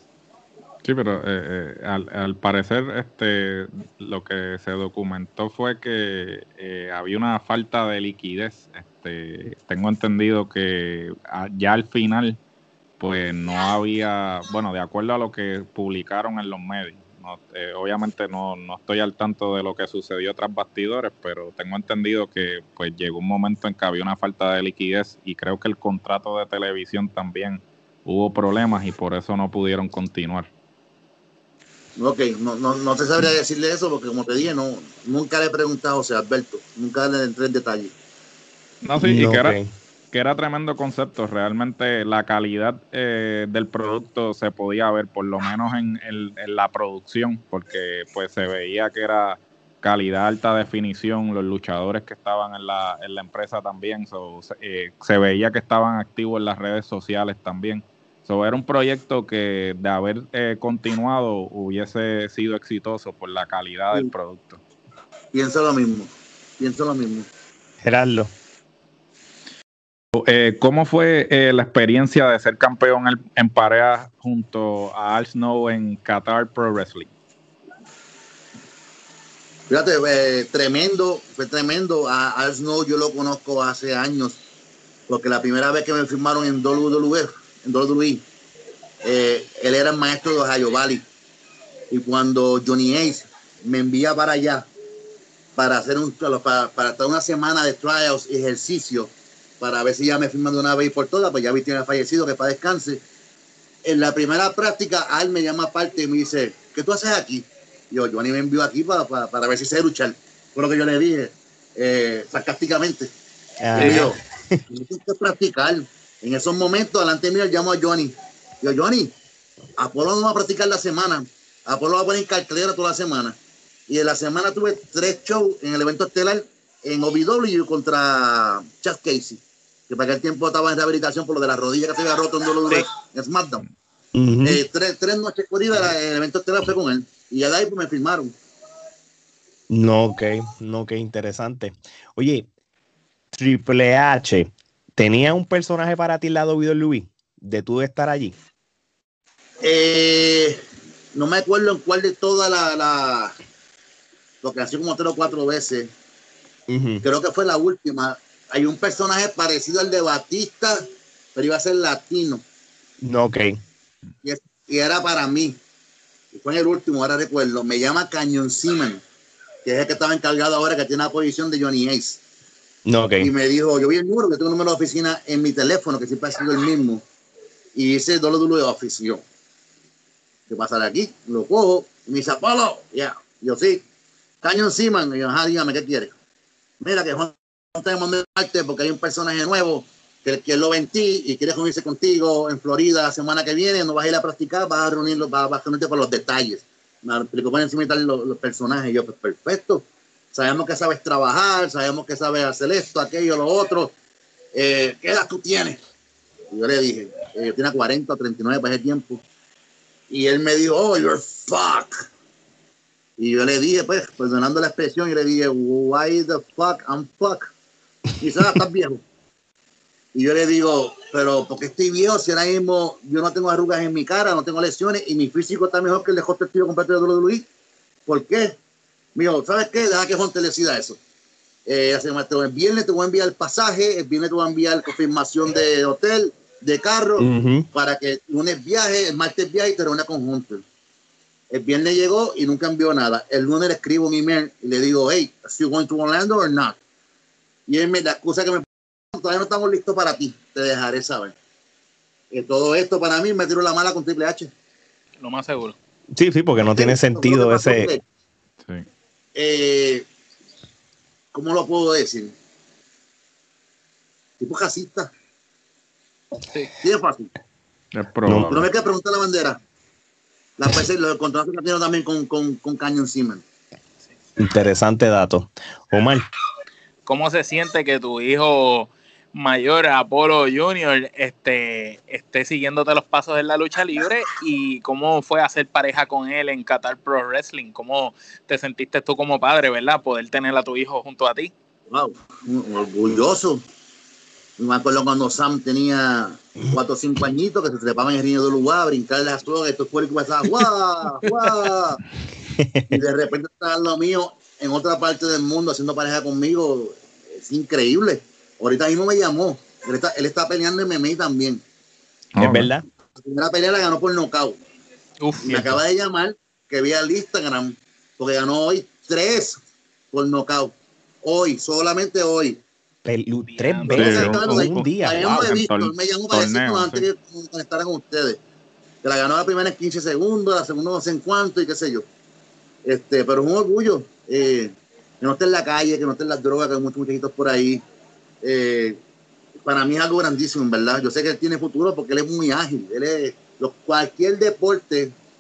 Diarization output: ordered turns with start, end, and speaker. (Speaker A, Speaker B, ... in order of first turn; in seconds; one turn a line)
Speaker A: 0.8-12.4
Speaker A: 13.0-30.5
Speaker B: 32.0-37.9
Speaker A: 38.8-39.6
Speaker C: 39.0-39.7
Speaker A: 40.1-64.6
Speaker B: 65.3-67.3
Speaker C: 67.8-68.3
Speaker A: 70.1-77.1
Speaker B: 79.7-84.4
Speaker B: 85.1-88.2
Speaker B: 89.0-91.1
Speaker B: 91.9-94.7
Speaker B: 95.6-103.0
Speaker B: 103.8-113.1
Speaker C: 113.6-114.6
Speaker D: 113.7-114.1
Speaker B: 113.8-119.1
Speaker B: 119.8-123.4
Speaker B: 123.9-133.6
Speaker C: 134.1-134.6
Speaker B: 134.4-138.3
Speaker C: 139.7-142.4
Speaker C: 143.3-148.4
Speaker B: 149.6-150.6
Speaker B: 151.1-153.4
Speaker B: 154.4-155.9
Speaker C: 156.7-157.0
Speaker B: 157.0-160.8
Speaker B: 161.3-162.4
Speaker C: 163.0-163.6
Speaker B: 164.2-165.6
Speaker B: 166.3-169.0
Speaker B: 169.6-172.2
Speaker C: 172.9-173.3
Speaker B: 173.2-177.0
Speaker B: 177.7-179.2
Speaker B: 180.5-183.8
Speaker B: 184.4-186.1
Speaker B: 186.8-203.9
Speaker B: 204.6-205.8
Speaker B: 206.5-209.2
Speaker B: 210.1-212.1
Speaker B: 213.2-217.5
Speaker B: 218.2-219.0
Speaker B: 220.1-227.5
Speaker B: 228.1-228.6
Speaker B: 229.1-231.0
Speaker B: 231.7-240.6
Speaker C: 237.2-237.7
Speaker B: 241.5-246.8
Speaker B: 247.7-251.3
Speaker B: 252.3-254.5
Speaker D: 255.2-255.8
Speaker C: 256.1-257.9
Speaker B: 256.7-258.0
Speaker B: 259.4-260.1
Speaker B: 261.3-262.4
Speaker B: 264.4-265.1
Speaker B: 266.8-267.3
Speaker A: 267.9-268.7
Speaker C: 268.3-268.7
Speaker B: 268.5-269.6
Speaker B: 270.6-273.4
Speaker C: 274.4-276.2
Speaker D: 277.1-291.5
Speaker B: 291.9-293.6
Speaker B: 294.6-302.0
Speaker C: 302.5-303.0
Speaker B: 302.9-311.6
Speaker A: 312.4-312.7
Speaker C: 312.4-312.9
Speaker B: 313.2-314.6
Speaker D: 315.2-315.8
Speaker B: 315.4-319.6
Speaker B: 320.1-322.6
Speaker C: 323.1-325.6
Speaker D: 323.5-324.2
Speaker A: 323.9-327.1
Speaker B: 323.9-328.4
Speaker B: 329.0-332.1
Speaker B: 332.9-337.8
Speaker B: 338.4-339.0
Speaker B: 339.6-345.1